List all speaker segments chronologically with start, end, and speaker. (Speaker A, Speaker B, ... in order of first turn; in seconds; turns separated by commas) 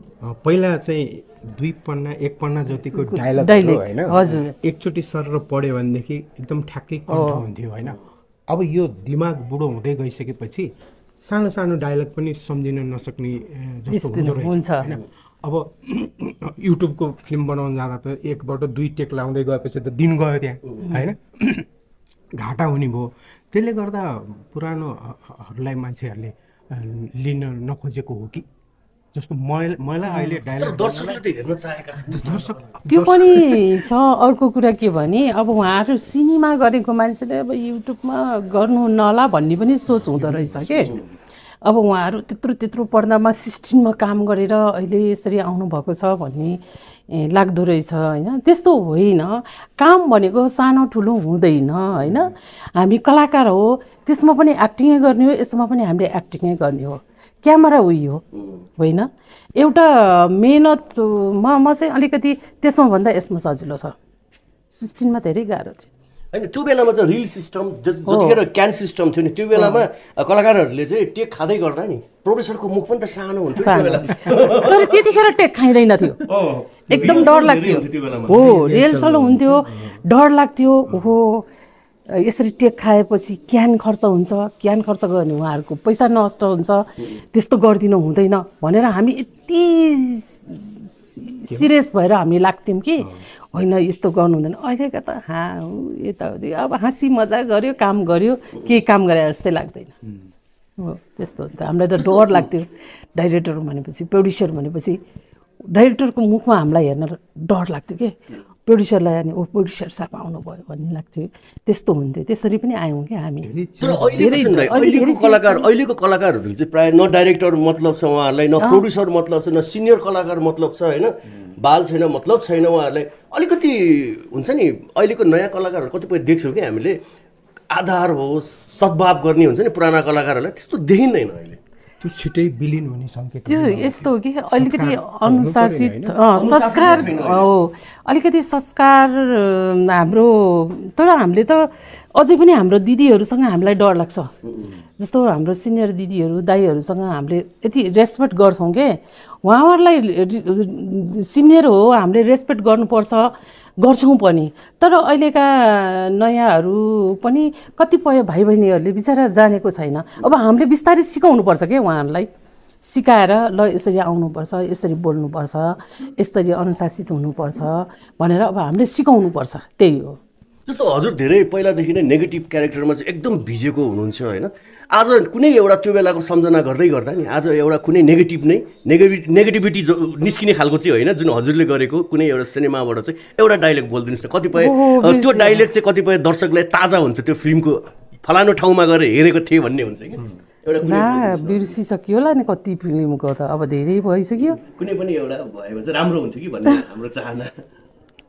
Speaker A: 0.2-8.0, Speaker B: 3.1-4.5, Speaker B: 7.1-7.4, Speaker A: 8.5-10.7, Speaker A: 11.2-21.7, Speaker B: 13.9-14.9, Speaker A: 22.4-28.5, Speaker A: 29.1-31.2, Speaker B: 30.1-30.4, Speaker C: 30.6-32.7, Speaker A: 32.0-33.9, Speaker B: 32.9-40.9, Speaker A: 39.9-41.0, Speaker B: 41.6-58.2, Speaker B: 58.8-64.0, Speaker B: 64.7-65.9, Speaker C: 66.3-75.1, Speaker B: 68.1-68.4, Speaker B: 69.5-69.8, Speaker B: 73.6-76.2, Speaker C: 76.2-78.4, Speaker B: 76.9-81.5, Speaker A: 76.9-77.5, Speaker A: 78.3-80.0, Speaker B: 82.1-99.9, Speaker A: 93.0-93.2, Speaker B: 100.8-105.0, Speaker C: 102.0-102.5, Speaker B: 105.7-113.5, Speaker A: 113.4-114.8, Speaker C: 113.8-127.0, Speaker B: 114.2-115.7, Speaker C: 127.7-131.6, Speaker A: 132.0-136.2, Speaker B: 133.5-144.3, Speaker C: 136.3-137.5, Speaker C: 144.4-144.7, Speaker B: 145.0-162.3, Speaker B: 162.8-170.2, Speaker C: 170.7-191.8, Speaker B: 184.5-185.7, Speaker B: 190.8-194.6, Speaker C: 194.6-197.7